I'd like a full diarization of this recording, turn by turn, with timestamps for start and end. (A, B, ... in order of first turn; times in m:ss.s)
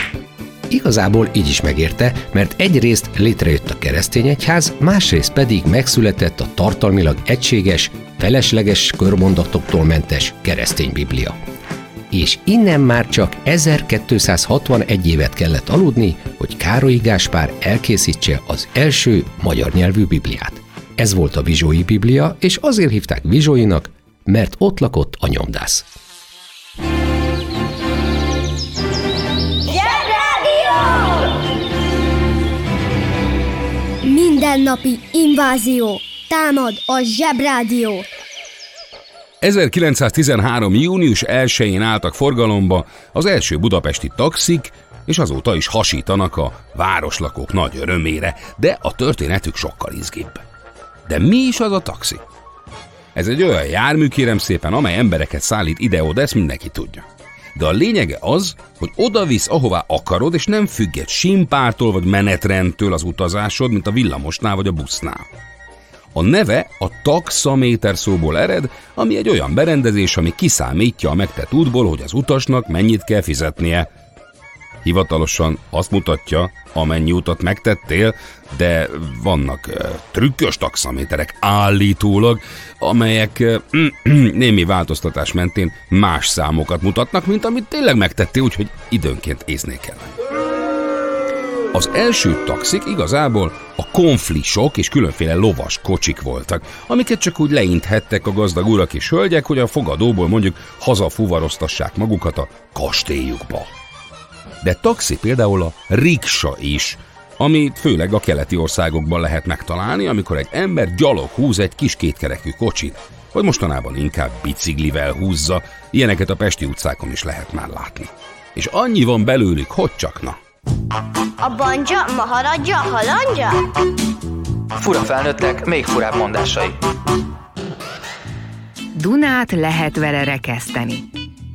0:00.7-0:11.4 A
0:12.1-0:25.8 A
0:34.0-0:38.1 B
0:39.4-0:50.4 C
0:51.1-0:52.2 C
0:53.1-1:05.3 C
1:06.1-1:13.9 C
1:14.8-1:30.1 C
1:31.7-1:43.7 C
1:44.6-2:00.4 C
2:01.4-2:03.5 D
2:04.8-2:06.8 E
2:08.9-2:11.0 F